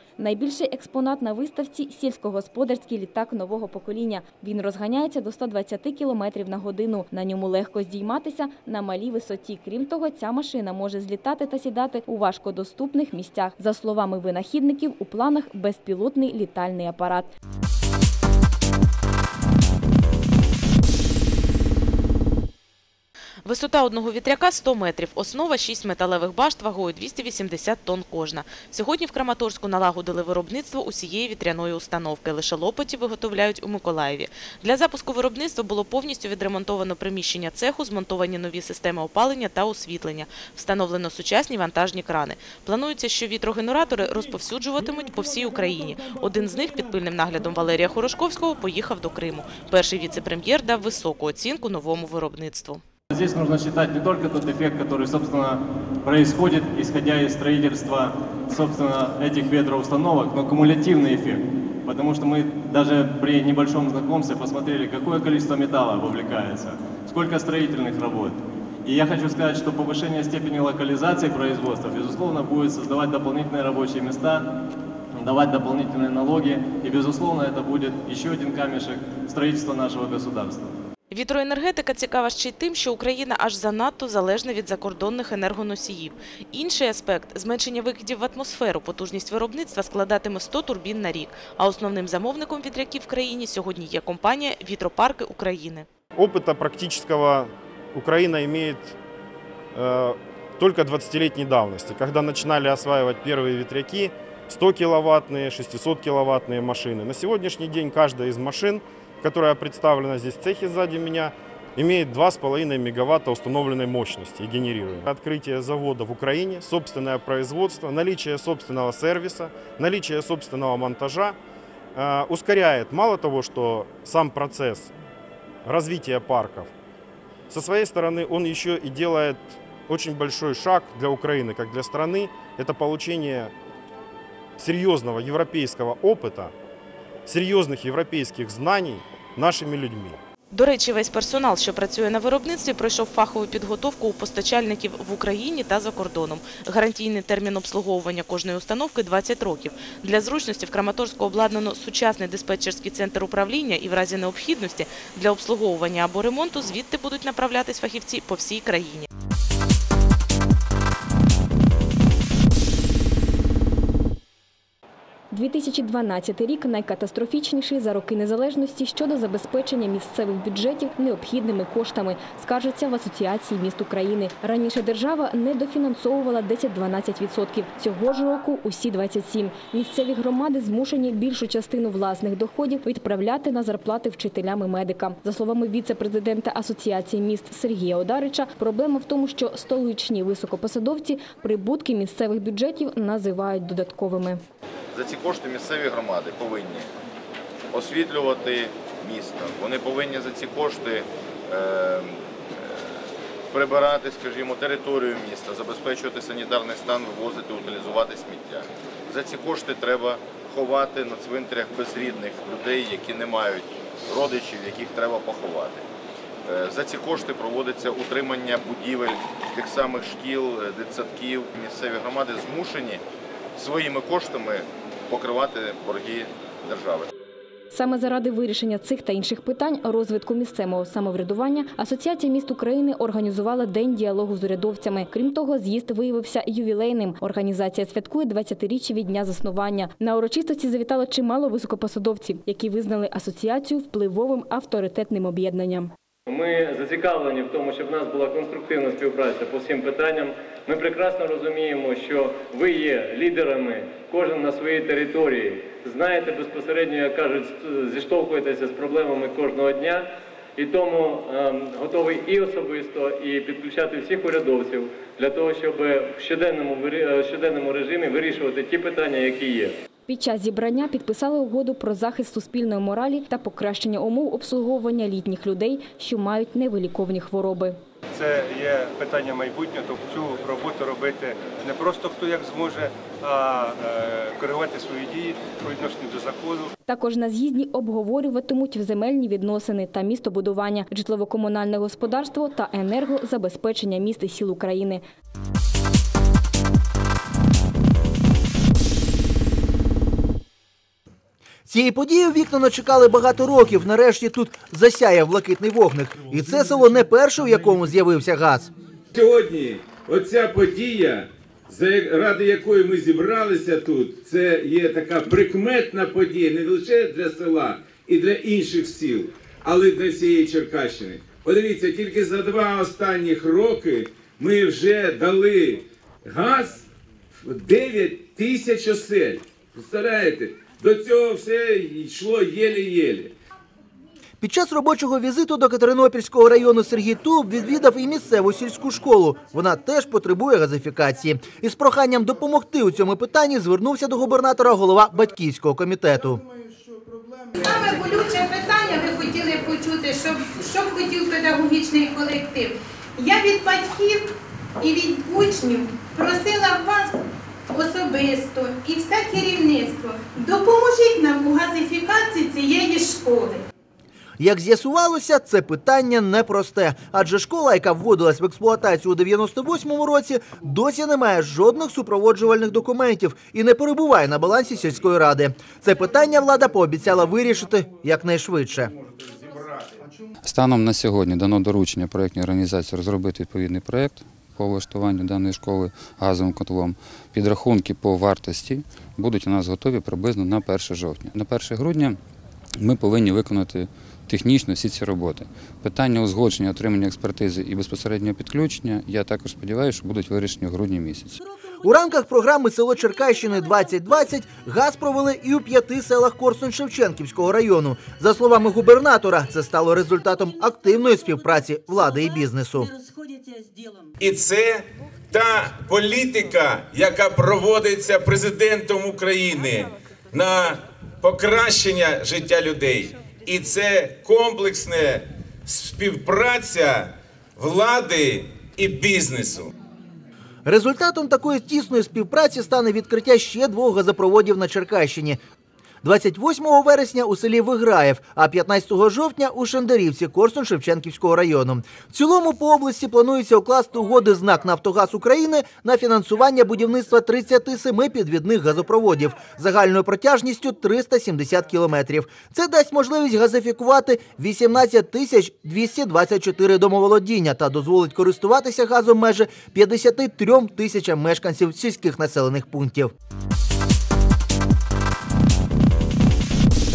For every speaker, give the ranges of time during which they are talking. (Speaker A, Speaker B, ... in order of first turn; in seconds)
Speaker A: 0.2-17.3, 165.3-194.4, 227.7-245.9, 270.1-277.8, 286.9-295.0
Speaker B: 23.4-52.8, 81.1-95.9, 140.5-159.1
Speaker C: 53.1-74.5, 75.1-80.8
Speaker D: 96.2-99.0, 99.7-121.4, 122.0-124.9, 125.7-126.7, 127.5-133.5, 134.6-136.5, 137.3-140.2
Speaker E: 194.9-196.9, 197.7-215.8, 216.5-223.0, 223.6-227.1
Speaker F: 246.3-269.8
Speaker G: 278.1-286.7
Speaker H: 301.7-308.7, 334.4-346.4, 364.4-378.9, 401.8-412.9, 430.7-435.4, 436.0-463.1
Speaker I: 309.1-326.9, 327.4-333.3, 414.2-429.7
Speaker J: 347.6-354.2, 354.8-357.1, 357.7-363.6
Speaker K: 380.4-392.2, 392.8-401.4